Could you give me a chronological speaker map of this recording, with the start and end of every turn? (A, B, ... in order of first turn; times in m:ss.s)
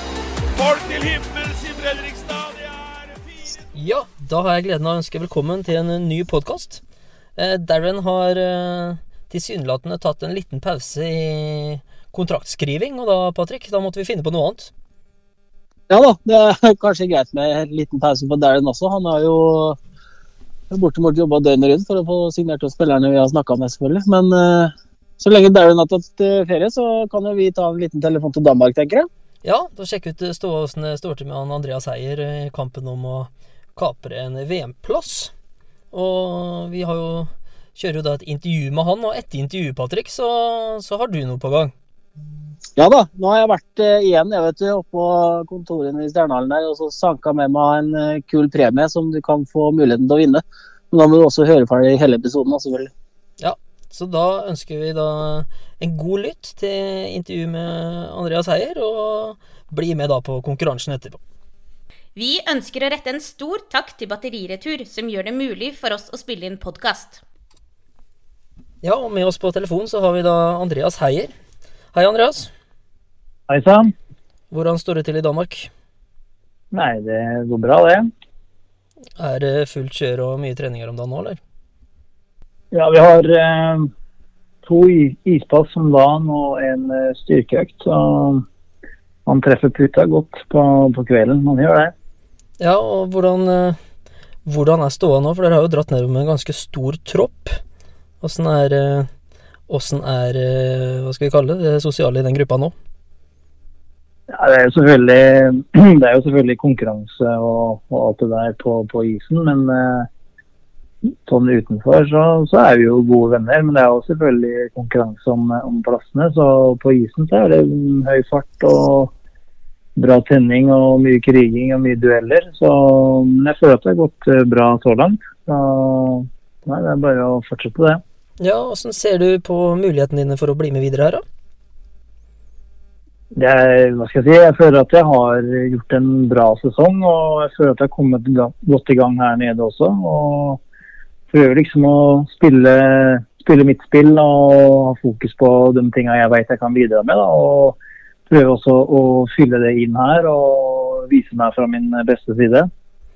0:00.5-0:03.5 A
0:03.7-0:06.8 B
0:07.4-0:14.7 B
0:15.9-0:19.8 C
0:20.7-0:29.1 C
0:29.4-0:35.3 B
0:35.9-0:41.7 B
0:42.8-0:52.9 C
0:53.4-1:01.2 B
1:02.2-1:07.2 D
1:08.8-1:11.3 B
1:11.9-1:12.5 B
1:13.5-1:13.9 E
1:14.5-1:15.7 B
1:16.7-1:18.1 E
1:19.2-1:21.4 B
1:22.7-1:23.9 E
1:24.6-1:28.4 E
1:29.3-1:31.9 E
1:32.6-1:33.8 B
1:34.4-1:37.6 B
1:38.2-1:39.1 B
1:39.7-1:42.7 B
1:44.3-1:50.1 E
1:51.2-1:59.1 E
2:00.0-2:08.0 E
2:08.4-2:11.2 B
2:13.3-2:20.6 E
2:21.3-2:32.7 E